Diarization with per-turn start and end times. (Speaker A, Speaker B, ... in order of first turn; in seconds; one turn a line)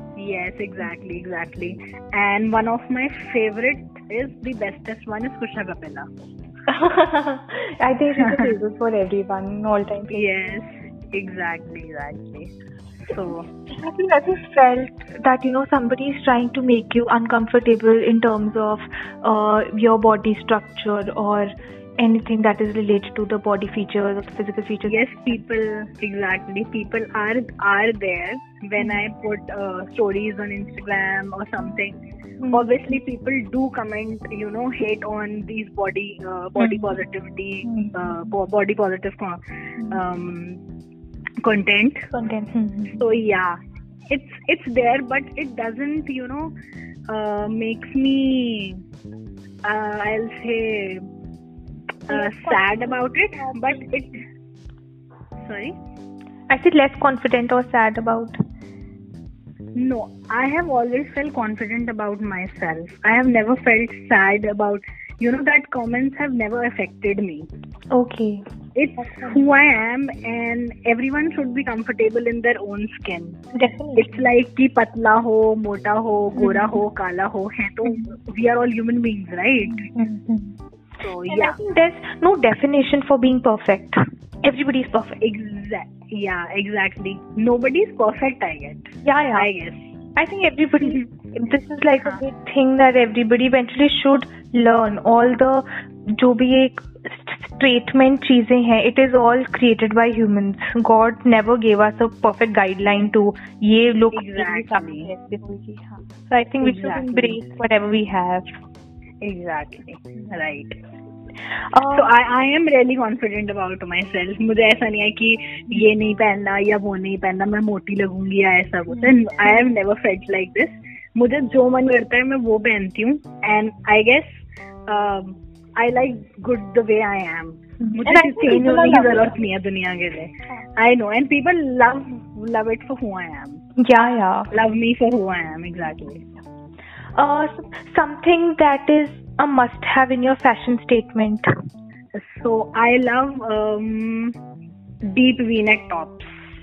Speaker A: 0.1-6.1
Speaker B: 6.7-10.2
Speaker A: 8.2-8.5
Speaker A: 10.1-12.5
Speaker A: 13.1-13.5
Speaker B: 13.7-25.4
Speaker A: 24.9-32.0
Speaker B: 32.4-32.7
Speaker A: 32.5-39.4
Speaker B: 36.6-37.0
Speaker B: 37.6-38.1
Speaker A: 39.9-40.6
Speaker A: 41.4-42.1
Speaker B: 42.1-43.0
Speaker A: 43.0-43.6
Speaker A: 44.1-46.5
Speaker A: 47.1-48.8
Speaker A: 49.6-51.0
Speaker A: 52.1-54.2
Speaker B: 52.1-53.8
Speaker A: 55.4-55.7
Speaker B: 56.5-58.4
Speaker A: 59.7-67.5
Speaker B: 67.9-68.4
Speaker A: 68.7-73.4
Speaker B: 69.0-69.5
Speaker B: 73.5-74.3
Speaker A: 73.9-79.9
Speaker B: 76.3-76.8
Speaker B: 77.8-78.1
Speaker B: 79.7-80.5
Speaker A: 81.0-81.6
Speaker B: 81.3-85.2
Speaker A: 85.2-89.9
Speaker B: 89.0-89.5
Speaker B: 90.2-108.5
Speaker A: 104.1-105.1
Speaker A: 106.6-107.4
Speaker A: 109.2-110.8
Speaker B: 111.7-112.1
Speaker A: 111.9-133.6
Speaker B: 118.9-119.5
Speaker B: 127.8-129.4
Speaker B: 133.8-134.5
Speaker A: 134.5-136.2
Speaker B: 137.2-141.5
Speaker A: 142.1-144.4
Speaker A: 145.0-146.3